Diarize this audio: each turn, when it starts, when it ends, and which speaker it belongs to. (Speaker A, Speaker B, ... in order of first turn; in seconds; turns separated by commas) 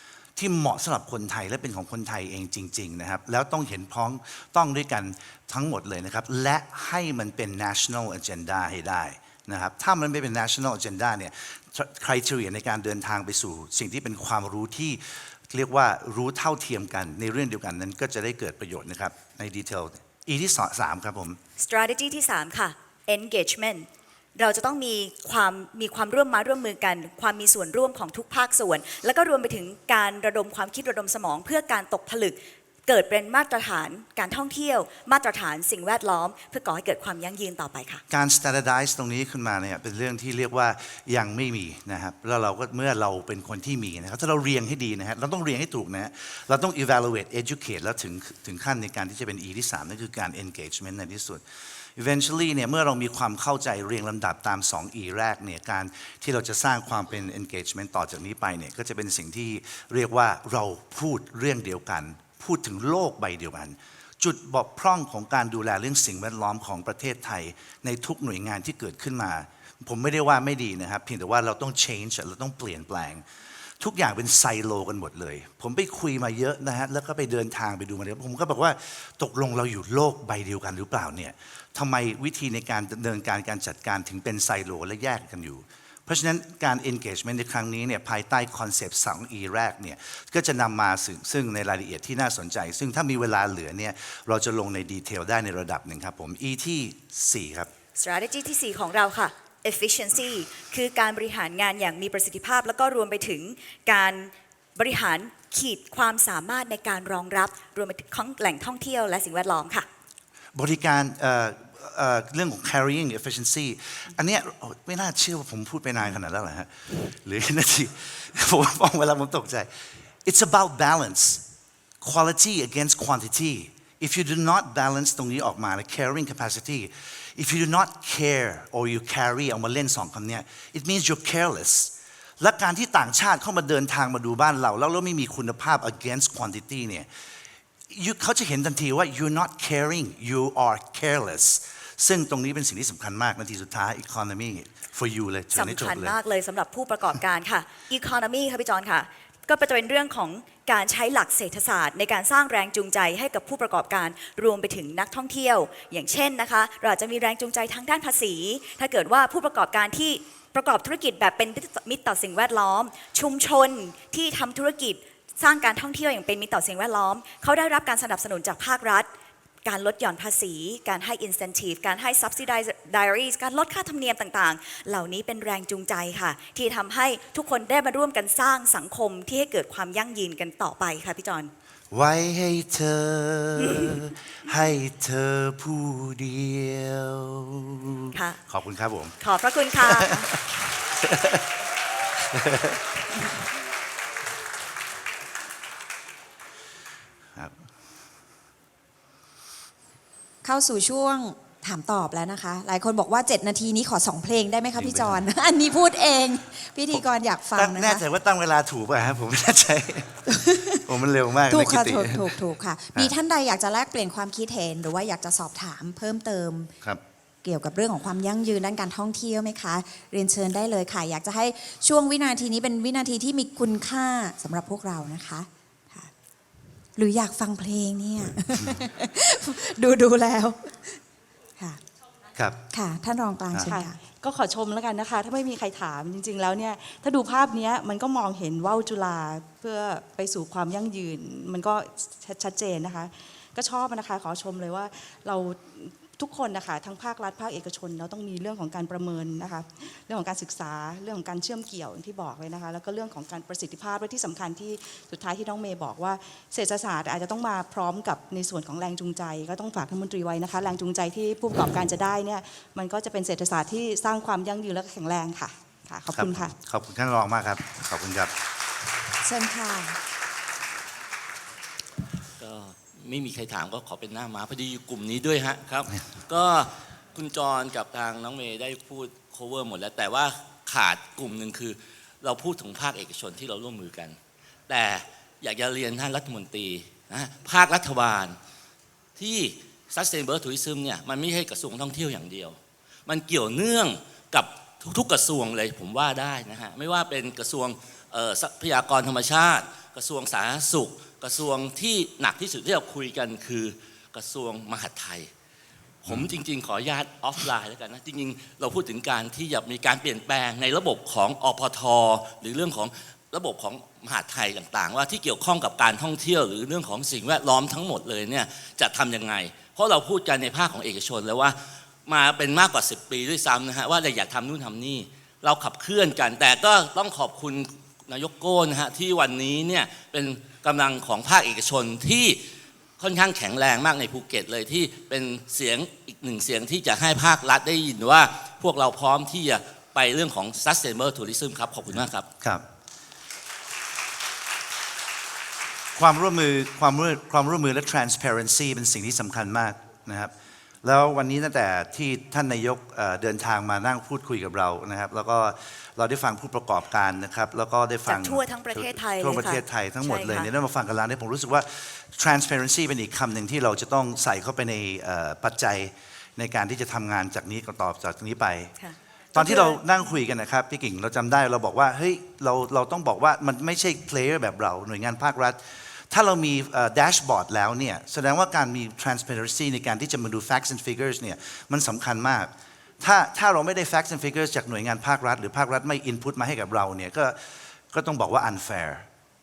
Speaker A: 0.4-21.4, Speaker B: 21.6-38.0, Speaker A: 38.1-51.4, Speaker A: 52.0-73.2, Speaker A: 73.8-97.7, Speaker B: 98.0-109.9, Speaker A: 110.5-119.7, Speaker A: 120.2-121.4, Speaker A: 122.0-137.1, Speaker A: 137.9-146.2, Speaker B: 145.5-169.1, Speaker B: 169.7-181.5, Speaker A: 181.9-189.2, Speaker B: 189.2-190.3, Speaker A: 189.8-191.4, Speaker A: 192.3-192.8, Speaker C: 200.4-208.1, Speaker A: 204.8-205.2, Speaker A: 206.9-210.2, Speaker C: 210.3-210.9, Speaker A: 210.9-212.4, Speaker C: 211.5-216.7, Speaker C: 217.4-226.1, Speaker C: 227.0-230.9, Speaker C: 232.7-234.0, Speaker D: 233.6-266.6, Speaker A: 266.1-268.3, Speaker C: 269.2-270.0, Speaker E: 272.4-288.4, Speaker E: 289.2-305.3, Speaker E: 306.0-332.4, Speaker A: 306.1-306.4, Speaker E: 333.0-342.3, Speaker A: 341.9-342.6, Speaker A: 346.0-350.3, Speaker A: 350.8-368.7, Speaker B: 358.1-360.5, Speaker B: 368.8-369.8, Speaker A: 369.3-387.4, Speaker A: 387.9-389.1